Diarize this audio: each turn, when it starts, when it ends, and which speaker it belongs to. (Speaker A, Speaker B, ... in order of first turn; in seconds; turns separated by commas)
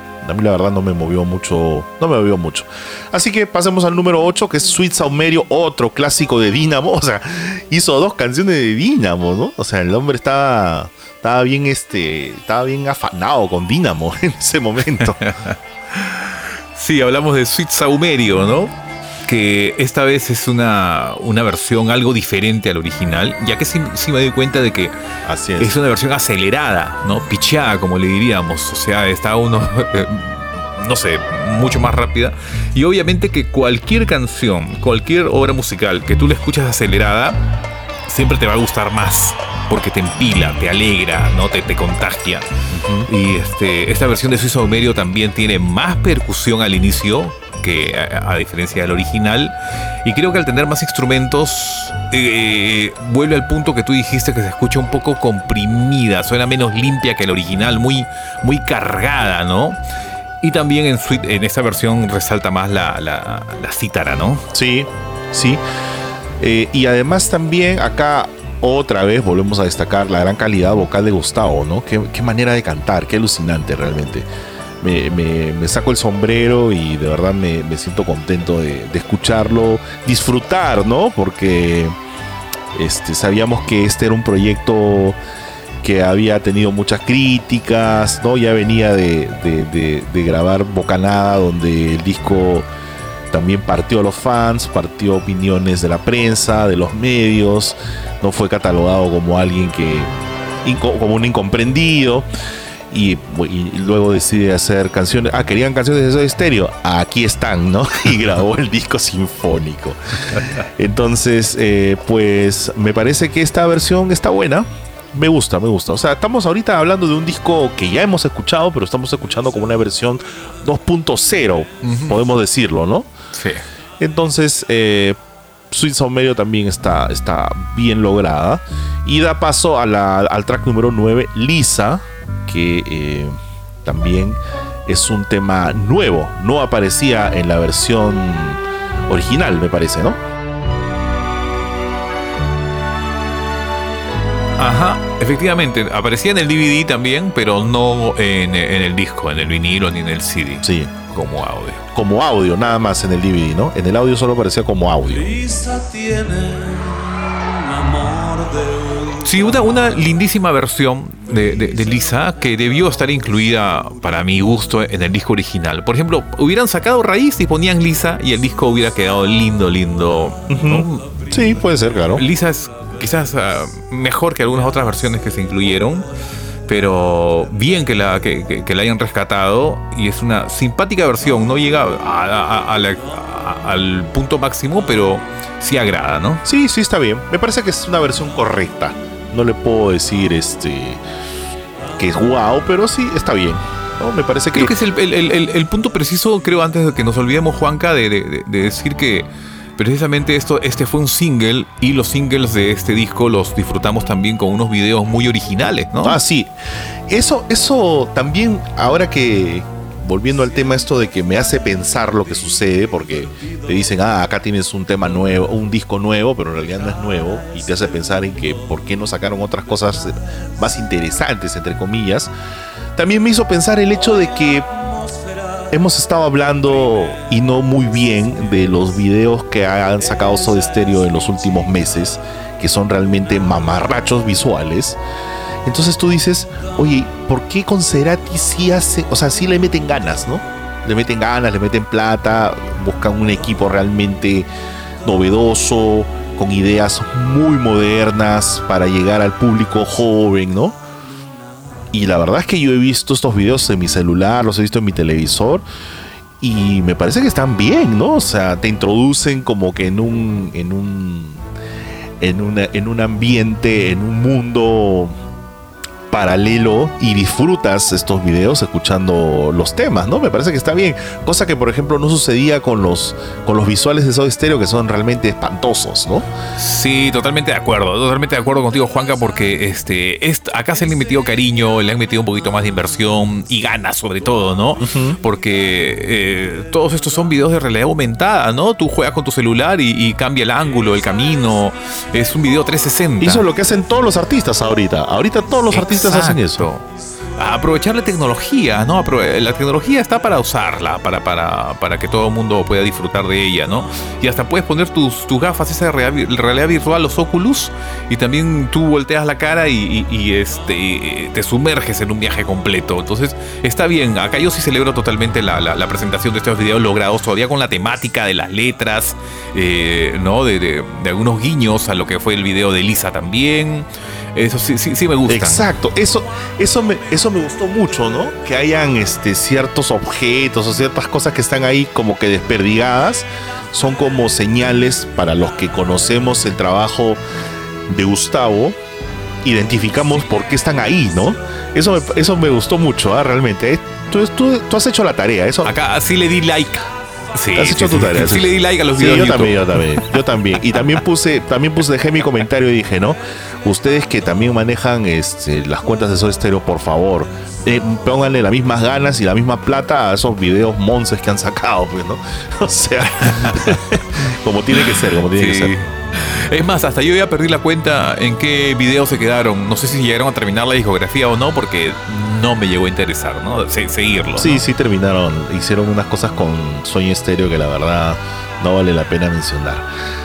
Speaker A: 0.2-15.2, Speaker B: 15.0-18.7, Speaker B: 19.2-24.9, Speaker A: 25.2-25.8, Speaker B: 25.6-37.4, Speaker B: 38.1-42.5, Speaker A: 42.7-43.1, Speaker B: 43.0-49.5, Speaker B: 50.0-59.8, Speaker B: 60.4-64.4, Speaker A: 64.5-65.6, Speaker A: 66.4-74.3, Speaker A: 74.8-82.0, Speaker A: 82.7-85.2, Speaker A: 85.8-92.7, Speaker A: 93.3-102.3, Speaker A: 102.9-123.1, Speaker B: 121.8-122.2, Speaker B: 123.3-123.7, Speaker A: 124.0-125.2, Speaker A: 125.7-140.2, Speaker B: 144.6-151.8, Speaker A: 150.6-150.9, Speaker A: 151.9-155.3, Speaker C: 155.1-159.3, Speaker B: 159.2-171.3, Speaker A: 170.5-172.2, Speaker B: 172.1-176.1, Speaker B: 176.7-186.4, Speaker A: 186.4-191.0, Speaker A: 192.0-194.8, Speaker B: 194.5-206.2, Speaker A: 206.0-206.5, Speaker A: 207.1-222.3, Speaker A: 222.9-224.7, Speaker A: 225.7-235.0, Speaker A: 235.6-244.5, Speaker A: 245.0-250.8, Speaker A: 251.9-255.6, Speaker A: 256.4-261.4, Speaker A: 262.2-265.1, Speaker A: 266.1-276.3, Speaker B: 276.6-293.4, Speaker A: 284.8-285.2, Speaker A: 293.2-296.7, Speaker B: 295.7-325.7, Speaker A: 325.3-337.2, Speaker A: 337.9-338.8, Speaker A: 339.4-345.7, Speaker B: 345.6-350.0, Speaker A: 347.5-365.8, Speaker B: 363.3-363.7, Speaker B: 364.7-374.6, Speaker A: 374.4-379.8